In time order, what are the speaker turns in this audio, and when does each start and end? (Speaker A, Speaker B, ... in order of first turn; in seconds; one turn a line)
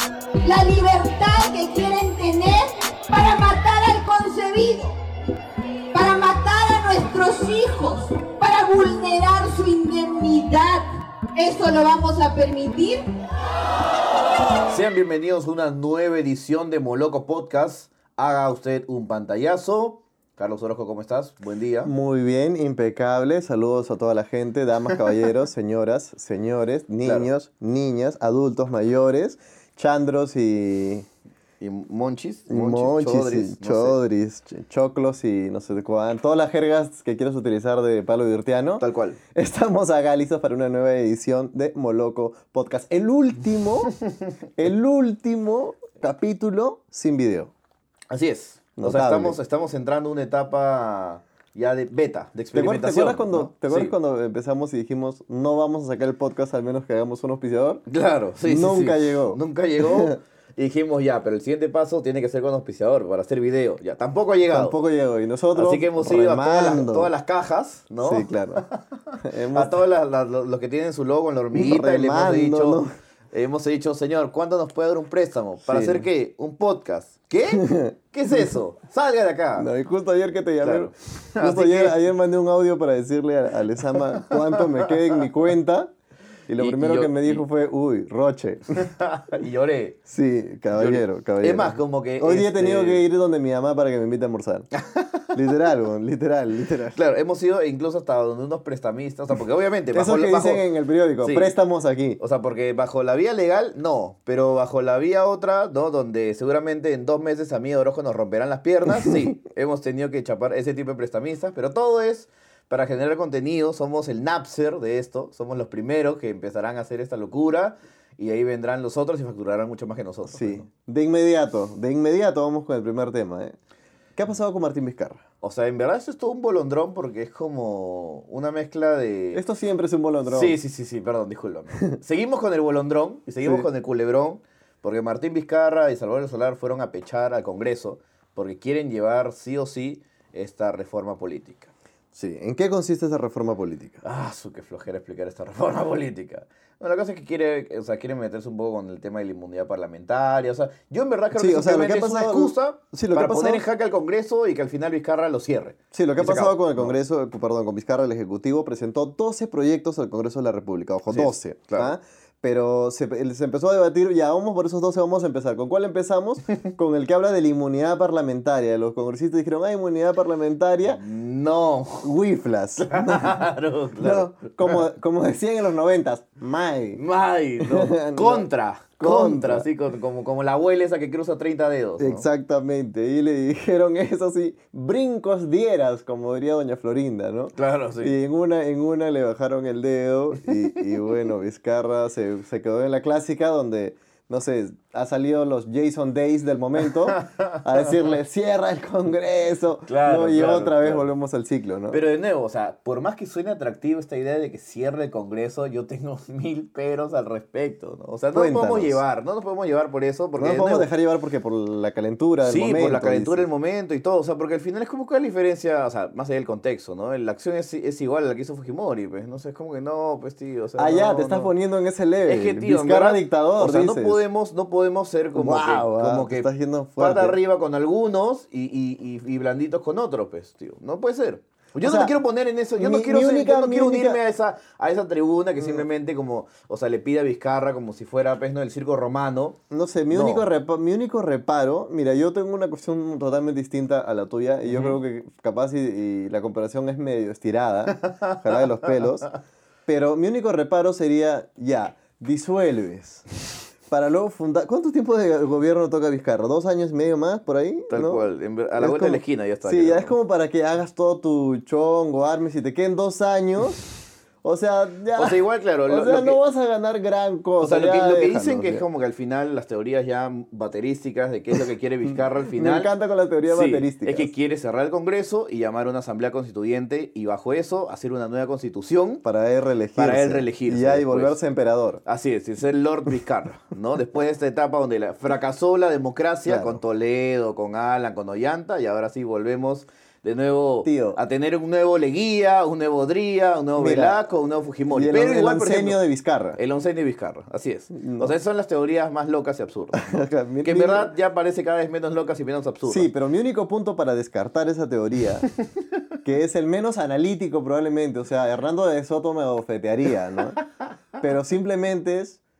Speaker A: 0.4-5.0
Speaker A: 5.9-13.1
Speaker B: 14.7-21.9
Speaker C: 21.8-31.1
Speaker B: 27.0-27.3
Speaker B: 31.6-34.0
Speaker C: 32.5-43.9
Speaker B: 38.8-39.2
Speaker C: 44.6-47.5
Speaker B: 48.1-53.9
Speaker C: 48.8-49.4
Speaker C: 52.5-57.8
Speaker B: 57.9-64.8
Speaker C: 58.5-60.2
Speaker C: 64.4-67.1
Speaker B: 65.6-68.8
Speaker C: 68.0-68.6
Speaker C: 69.2-69.8
Speaker B: 69.5-72.8
Speaker C: 71.5-72.9
Speaker B: 73.3-79.7
Speaker C: 75.7-76.1
Speaker C: 77.5-78.5
Speaker C: 79.6-85.9
Speaker B: 80.6-82.0
Speaker B: 84.3-84.6
Speaker C: 86.5-88.9
Speaker B: 86.6-87.4
Speaker B: 88.8-90.0
Speaker C: 90.1-94.7
Speaker B: 90.7-93.0
Speaker B: 94.8-95.2
Speaker C: 95.3-97.0
Speaker B: 96.9-100.6
Speaker C: 99.9-102.2
Speaker B: 101.2-101.5
Speaker B: 102.2-120.7
Speaker C: 120.3-123.6
Speaker C: 124.2-125.2
Speaker B: 125.4-129.4
Speaker C: 129.3-130.6
Speaker B: 130.3-141.7
Speaker C: 142.1-144.0
Speaker B: 144.0-156.9
Speaker C: 151.3-153.6
Speaker C: 155.9-171.0
Speaker B: 161.1-161.9
Speaker B: 170.8-172.1
Speaker C: 172.0-173.5
Speaker B: 172.9-174.8
Speaker C: 174.0-177.0
Speaker B: 177.0-182.2
Speaker C: 177.6-178.5
Speaker C: 179.0-179.7
Speaker C: 182.0-202.0
Speaker B: 187.6-188.2
Speaker B: 197.1-197.9
Speaker B: 199.9-201.1
Speaker B: 201.9-210.9
Speaker C: 208.3-209.0
Speaker C: 210.4-213.5
Speaker B: 212.4-221.5
Speaker C: 220.8-224.2
Speaker B: 222.2-239.6
Speaker C: 225.4-227.4
Speaker C: 231.8-232.1
Speaker C: 232.8-234.2
Speaker C: 239.7-249.3
Speaker B: 240.1-240.5
Speaker B: 244.7-244.9
Speaker C: 249.9-253.2
Speaker C: 253.9-258.2
Speaker B: 257.9-260.1
Speaker C: 258.8-263.8
Speaker C: 264.4-268.9
Speaker B: 265.1-266.4
Speaker B: 267.6-272.9
Speaker C: 272.6-274.3
Speaker B: 273.5-279.2
Speaker C: 279.2-282.0
Speaker B: 280.0-281.4
Speaker B: 282.1-296.0
Speaker C: 286.5-286.8
Speaker C: 290.8-291.2
Speaker C: 293.8-294.2
Speaker C: 294.9-296.6
Speaker B: 296.6-303.1
Speaker C: 297.9-298.4
Speaker C: 299.9-301.1
Speaker C: 302.9-305.5
Speaker C: 306.2-310.6
Speaker C: 311.2-312.4